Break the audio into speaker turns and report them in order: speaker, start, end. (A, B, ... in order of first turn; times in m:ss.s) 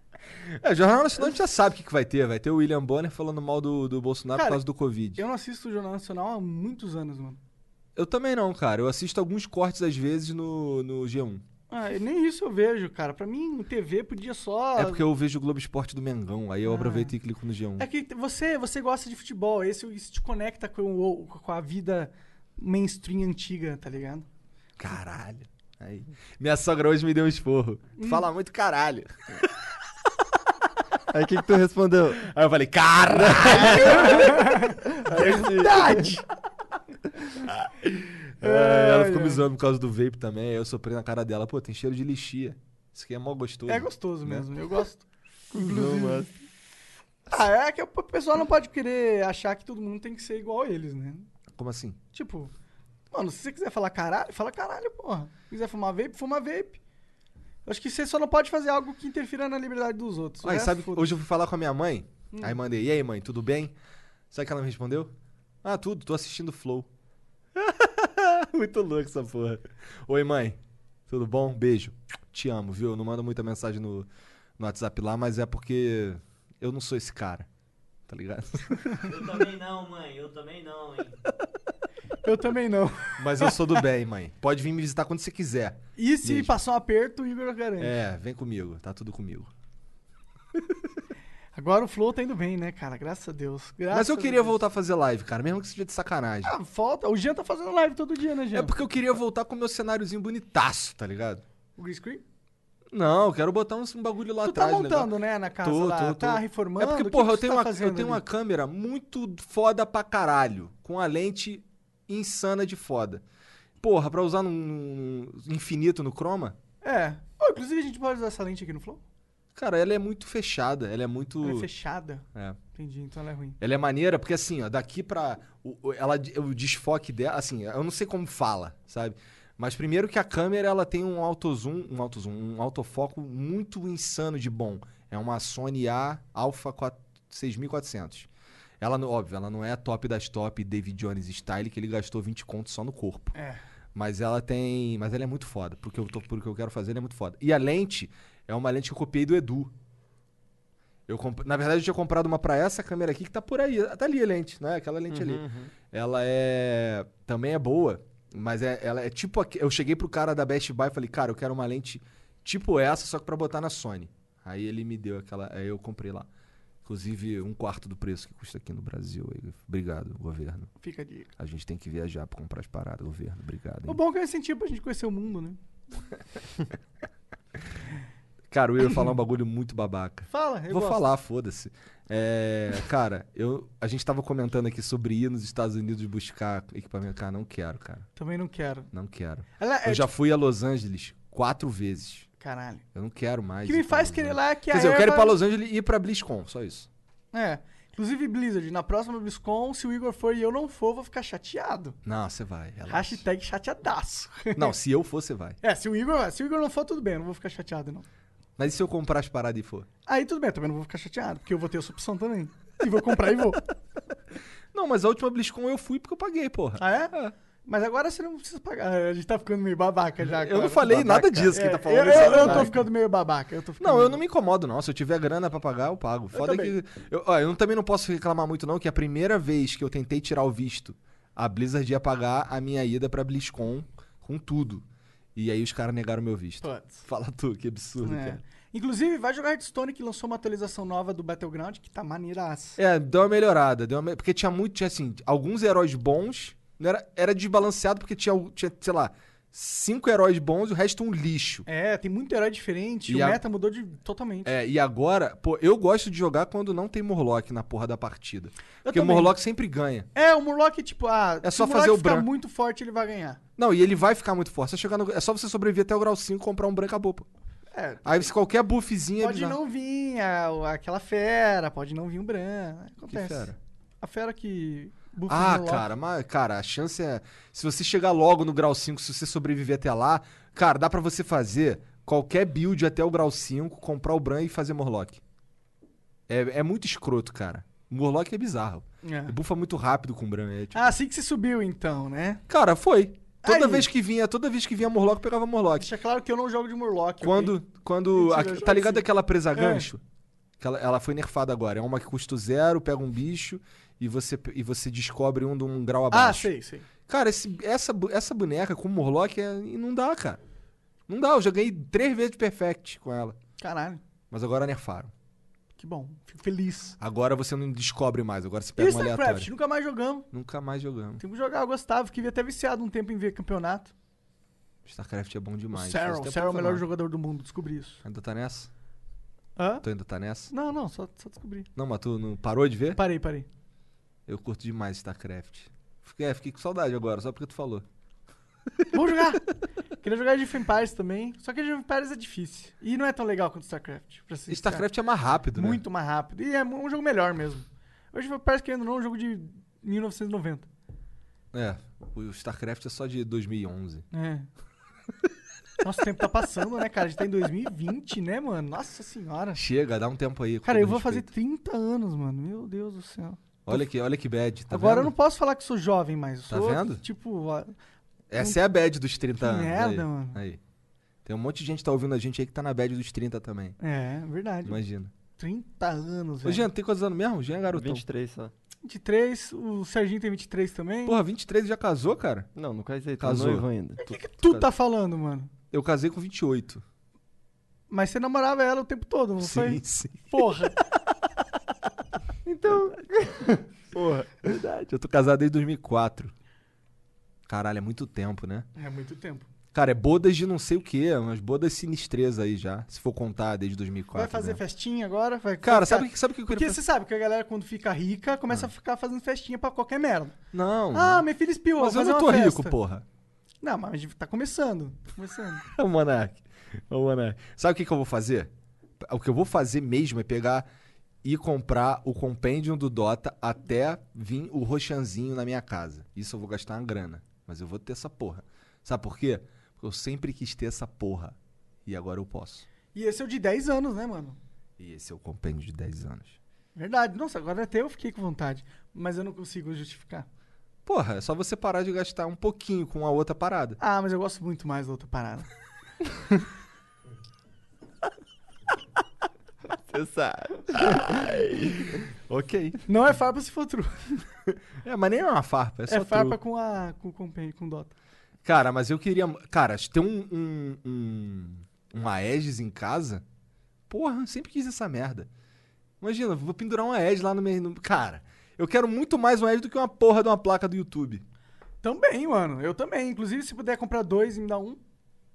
0:00.4-0:05.2 A
0:04.3-0:04.6 B
0:05.2-0:07.4 B
0:08.0-0:11.4 A
0:11.7-0:15.0 B
0:14.8-0:17.9 A
0:16.6-0:17.1 B
0:17.8-0:24.2 B
0:24.8-0:29.4 A
0:28.0-0:28.3 B
0:31.1-0:32.2 C
0:32.2-0:34.4 A
0:33.3-0:34.3 C
0:33.7-0:36.2 B
0:34.8-0:36.1 C
0:37.5-0:44.5 A
0:38.4-0:39.4 B
0:43.7-0:46.3 B
0:45.5-0:46.3 C
0:47.3-0:51.3 B
0:51.6-0:52.0 A
0:52.1-0:52.5 B
0:53.1-0:56.8 B
0:57.6-1:01.1 B
1:00.4-1:03.7 A
1:02.3-1:02.6 B
1:04.3-1:05.1 A
1:05.6-1:06.9 A
1:07.6-1:17.5 A
1:18.1-1:18.9 A
1:19.0-1:21.2 D
1:22.2-1:23.6 B
1:23.2-1:26.5 A
1:26.0-1:28.0 B
1:27.8-1:29.5 A
1:31.6-1:34.6 B
1:33.9-1:36.6 A
1:36.4-1:38.7 B
1:38.5-1:41.4 A
1:41.8-1:42.2 B
1:42.9-1:45.1 A
1:44.4-1:48.2 B
1:45.6-1:53.2 A
1:53.8-1:56.6 A
1:56.8-1:59.0 B
1:59.6-2:01.7 A
2:01.4-2:03.6 B
2:03.6-2:18.3 A
2:18.8-2:23.4 A
2:23.4-2:23.6 B
2:23.9-2:29.7 A
2:31.1-2:46.3 A
2:35.1-2:35.7 C
2:46.8-2:50.7 A
2:50.8-2:51.3 B
2:51.4-2:54.0 A
2:53.9-2:55.6 B
2:58.5-3:08.1 A
3:00.3-3:01.0 B
3:08.2-3:08.9 B
3:08.9-3:12.3 A
3:09.6-3:10.1 B
3:12.4-3:12.8 B
3:12.9-3:16.9 A
3:13.6-3:15.4 B
3:17.3-3:22.0 B
3:22.0-3:23.2 A
3:22.9-3:24.7 B
3:24.6-3:25.6 A
3:25.6-3:28.1 B
3:28.6-3:29.9 A
3:30.1-3:33.6 B
3:34.7-3:37.3 A
3:36.8-3:37.1 B
3:37.6-3:44.2 B
3:40.2-3:42.8 A
3:40.9-3:41.5 C
3:43.8-3:54.8 A
3:46.3-3:46.7 B
3:55.4-3:58.4 A
3:56.6-3:57.0 B
3:58.0-4:02.8 B
4:02.8-4:11.7 A
4:11.7-4:14.5 B
4:13.1-4:13.4 A
4:14.4-4:20.1 A
4:18.8-4:19.3 B
4:20.1-4:23.4 B
4:21.4-4:22.3 A
4:23.6-4:27.3 A
4:27.7-4:28.3 B
4:28.0-4:29.6 A
4:29.2-4:33.5 B
4:33.1-4:33.6 A
4:34.0-4:35.9 B
4:35.3-4:45.2 A
4:46.3-4:50.9 A
4:49.0-4:49.4 B
4:50.7-4:52.4 B
4:52.5-4:55.9 A
4:53.4-4:53.9 B
4:55.8-4:57.6 B
4:57.2-5:00.0 A
4:58.1-4:59.9 B
5:00.6-5:06.5 A
5:06.1-5:06.9 B
5:07.1-5:10.4 A
5:11.1-5:13.4 A
5:13.6-5:14.0 B
5:14.3-5:15.1 A
5:15.8-5:17.0 B
5:17.0-5:19.5 A
5:18.8-5:20.3 B
5:20.3-5:21.2 A
5:21.2-5:23.9 B
5:24.8-5:26.8 A
5:25.7-5:28.0 B
5:28.0-5:28.7 A
5:29.6-5:29.8 B
5:29.8-5:30.5 A
5:30.5-5:31.7 B
5:31.8-5:33.0 A
5:32.9-5:33.5 B
5:34.3-5:37.8 A
5:38.9-5:39.5 B
5:40.0-5:44.9 B
5:44.5-5:45.8 A
5:45.6-5:50.7 B
5:51.5-5:54.0 A
5:54.1-5:54.5 B
5:55.8-5:59.6 B
5:59.6-6:01.3 A
6:00.6-6:03.8 B
6:03.7-6:05.1 A
6:04.7-6:07.7 B
6:06.5-6:07.0 A
6:08.3-6:10.6 A
6:09.4-6:10.4 B
6:11.2-6:13.8 A
6:13.8-6:14.8 B
6:14.6-6:15.1 A
6:15.4-6:16.6 B
6:16.4-6:18.0 A
6:17.7-6:18.5 C
6:18.8-6:21.2 B
6:21.1-6:22.5 A
6:22.6-6:24.0 C
6:23.2-6:24.7 A
6:24.0-6:25.5 B
6:25.7-6:26.8 A
6:27.9-6:30.8 B
6:29.4-6:30.4 A
6:32.4-6:34.5 C
6:34.5-6:36.3 A
6:37.5-6:38.7 A
6:38.8-6:39.5 B
6:39.7-6:44.6 A
6:44.1-6:50.4 B
6:45.6-6:46.8 A
6:50.5-6:51.2 A
6:50.9-6:52.8 B
6:51.8-6:53.0 A
6:53.6-6:55.7 B
6:55.7-7:00.6 A
7:01.2-7:12.6 A
7:12.9-7:14.4 B
7:14.8-7:16.4 A
7:16.8-7:20.3 B
7:20.9-7:23.8 A
7:23.8-7:25.5 B
7:29.7-7:31.9 C
7:32.1-7:32.8 A
7:32.9-7:34.2 B
7:34.8-7:36.4 A
7:35.9-7:37.9 B
7:38.4-7:43.2 A
7:43.9-7:45.3 A
7:46.0-7:51.2 A
7:51.8-7:54.8 B